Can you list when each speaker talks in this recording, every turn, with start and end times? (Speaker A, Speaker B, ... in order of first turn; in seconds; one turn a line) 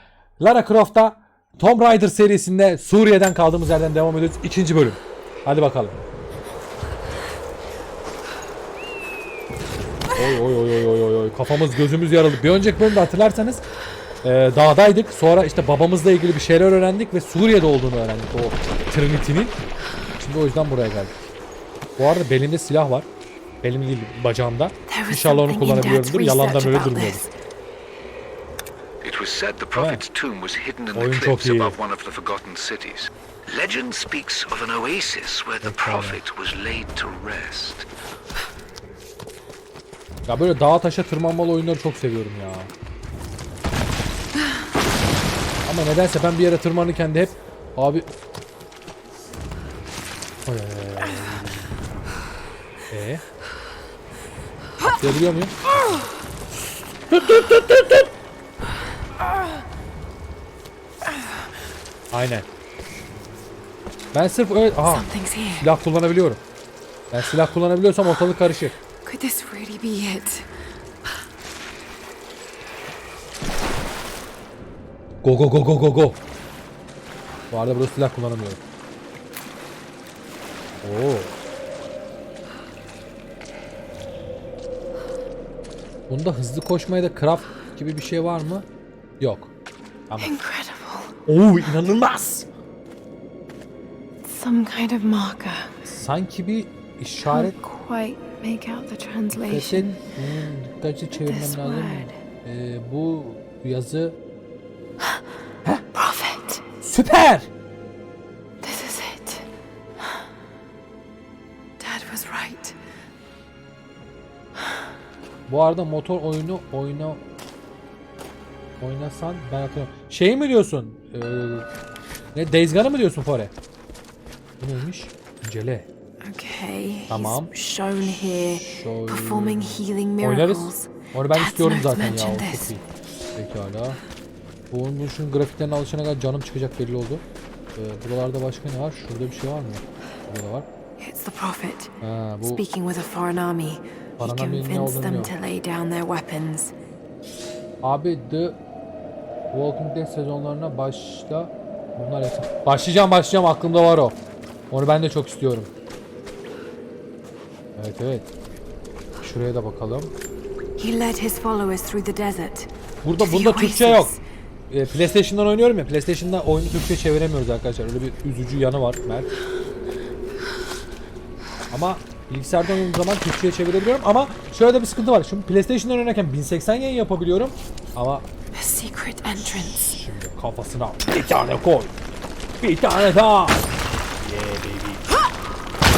Speaker A: 0.4-6.0
Speaker A: 10.1-13.6
Speaker A: 14.2-19.6
Speaker A: 20.2-21.2
Speaker A: 22.0-23.1
Speaker A: 23.6-27.2
Speaker B: 24.9-27.3
Speaker C: 29.0-37.8
Speaker A: 29.7-30.0
Speaker A: 30.9-31.8
Speaker A: 35.6-36.2
Speaker A: 40.3-42.7
Speaker A: 45.6-48.1
Speaker A: 50.5-51.7
Speaker A: 52.9-53.2
Speaker A: 54.8-55.6
Speaker A: 57.1-58.1
Speaker A: 62.1-62.5
Speaker A: 64.1-65.1
Speaker B: 64.8-65.7
Speaker A: 65.6-66.4
Speaker A: 67.1-68.8
Speaker B: 69.0-70.5
Speaker A: 75.2-76.2
Speaker A: 77.5-78.6
Speaker A: 80.8-81.3
Speaker A: 86.1-88.7
Speaker A: 89.2-89.5
Speaker A: 90.1-90.3
Speaker B: 90.2-91.1
Speaker A: 91.2-92.5
Speaker B: 94.2-95.7
Speaker A: 95.8-97.5
Speaker B: 97.2-99.9
Speaker A: 99.3-104.2
Speaker B: 101.1-102.2
Speaker B: 105.9-106.6
Speaker A: 106.8-107.5
Speaker B: 108.6-109.5
Speaker B: 111.8-112.8
Speaker A: 115.5-117.2
Speaker A: 118.8-121.7
Speaker A: 122.3-123.5
Speaker A: 124.6-125.9
Speaker B: 126.2-132.7
Speaker A: 127.1-132.8
Speaker A: 133.3-134.0
Speaker A: 134.7-137.2
Speaker A: 137.7-140.7
Speaker B: 141.0-146.7
Speaker A: 142.0-142.6
Speaker A: 144.2-145.3
Speaker A: 147.8-148.6
Speaker A: 149.5-154.2
Speaker A: 154.7-155.7
Speaker A: 157.8-158.3
Speaker A: 159.2-160.1
Speaker B: 160.8-164.2
Speaker A: 163.0-164.1
Speaker A: 164.7-169.3
Speaker A: 171.7-178.3
Speaker B: 178.6-179.9
Speaker A: 179.4-181.9
Speaker A: 182.6-183.6
Speaker A: 184.2-185.0